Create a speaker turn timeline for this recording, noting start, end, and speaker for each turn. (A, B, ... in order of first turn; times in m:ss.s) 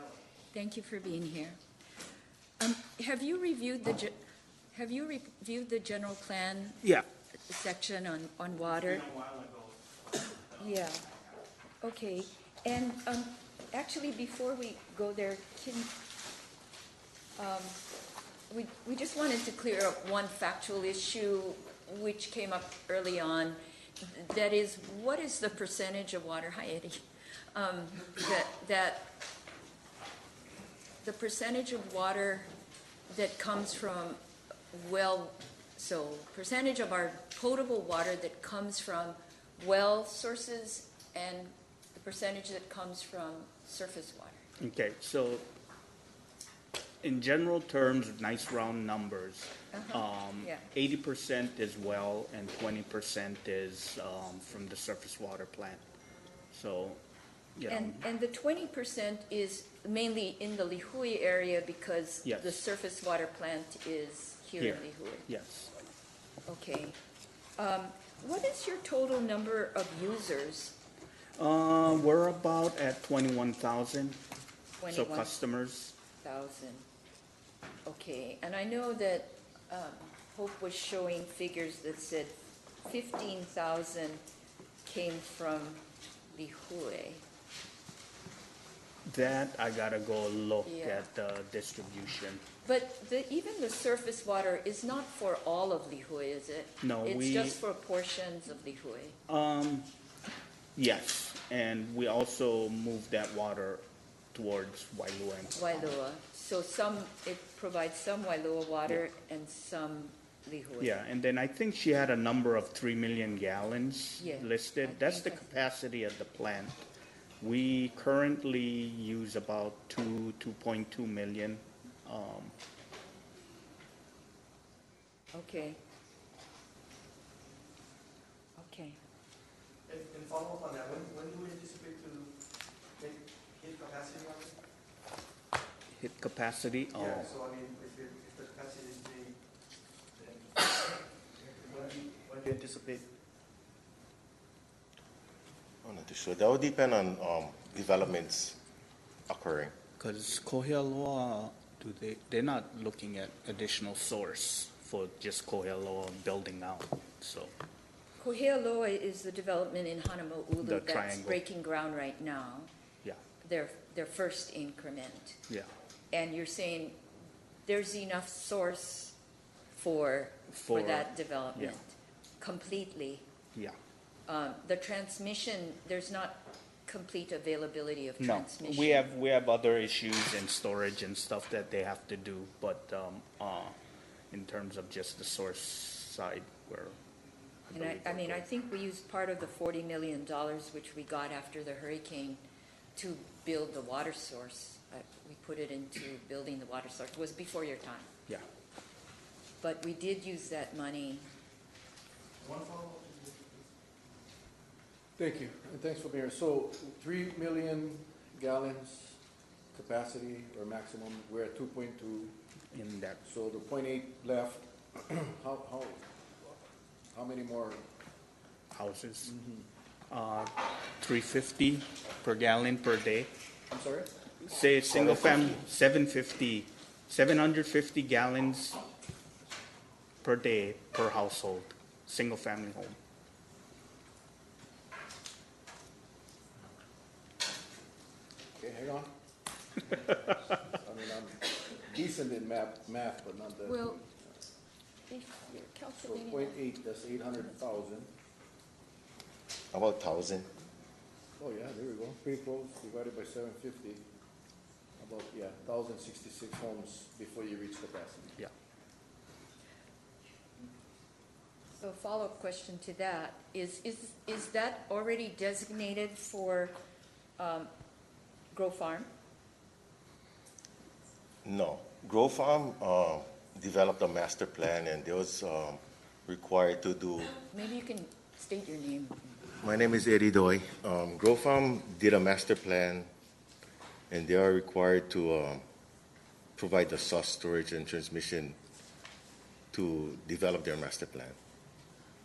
0:00.5-0:01.6 A
0:02.6-0:04.1 A
0:04.7-0:06.9 A
0:07.5-0:09.1 A
0:09.1-0:09.7 B
0:10.6-0:11.0 A
0:11.8-0:15.9 A
0:17.4-0:17.8 A
0:18.5-0:27.0 A
0:27.5-0:29.1 A
0:31.0-0:32.5 A
0:33.1-0:34.2 A
0:34.7-0:44.4 A
0:44.6-0:45.5 C
0:47.0-0:55.8 C
0:49.7-0:50.6 A
0:56.5-0:57.0 C
0:57.6-0:58.0 C
0:57.7-1:05.3 A
1:02.2-1:02.6 C
1:04.6-1:05.7 C
1:06.4-1:07.0 A
1:07.6-1:10.8 A
1:11.4-1:14.2 C
1:14.8-1:15.3 A
1:14.9-1:16.0 C
1:16.2-1:16.8 A
1:17.9-1:24.2 A
1:24.8-1:27.2 A
1:29.0-1:32.4 C
1:30.6-1:31.1 A
1:32.6-1:39.2 A
1:36.8-1:37.6 C
1:39.3-1:39.9 C
1:40.8-1:45.9 C
1:45.5-1:51.0 A
1:50.8-1:56.8 C
1:54.2-1:55.4 A
1:57.4-2:02.6 C
2:05.3-2:05.8 A
2:08.6-2:09.0 A
2:09.9-2:12.3 B
2:13.0-2:14.6 B
2:15.9-2:17.4 C
2:17.0-2:19.3 B
2:21.4-2:23.0 B
2:22.6-2:22.9 D
2:25.8-2:28.6 D
2:29.3-2:29.7 D
2:30.0-2:37.5 C
2:38.2-2:42.7 A
2:40.6-2:41.4 C
2:43.4-2:45.4 A
2:46.1-2:47.0 A
2:47.7-2:49.2 A
2:49.7-2:53.3 A
2:50.5-2:51.8 C
2:54.2-2:59.1 A
2:58.2-3:03.8 C
3:04.3-3:07.0 C
3:07.7-3:08.4 C
3:07.7-3:12.4 A
3:13.0-3:18.1 A
3:19.6-3:21.3 A
3:22.4-3:23.4 B
3:25.2-3:29.2 E
3:29.7-3:32.3 E
3:32.7-3:33.2 C
3:33.2-3:36.1 E
3:37.1-3:37.8 E
3:38.7-3:39.3 C
3:39.2-3:39.7 E
3:40.1-3:43.3 C
3:43.7-3:44.1 E
3:44.4-3:48.8 C
3:44.9-3:45.6 E
3:50.2-3:53.0 C
3:58.6-3:59.1 E
3:59.8-4:04.1 E
4:03.6-4:04.0 A
4:05.1-4:06.6 A
4:06.0-4:08.1 E
4:09.7-4:10.5 D
4:11.4-4:14.0 E
4:15.0-4:18.4 E
4:21.8-4:26.8 A
4:27.4-4:27.7 A
4:28.5-4:29.1 A
4:31.4-4:37.4 D
4:37.5-4:39.4 A
4:39.6-4:43.1 D
4:44.1-4:45.6 D
4:46.6-4:48.6 D
4:49.7-4:51.4 D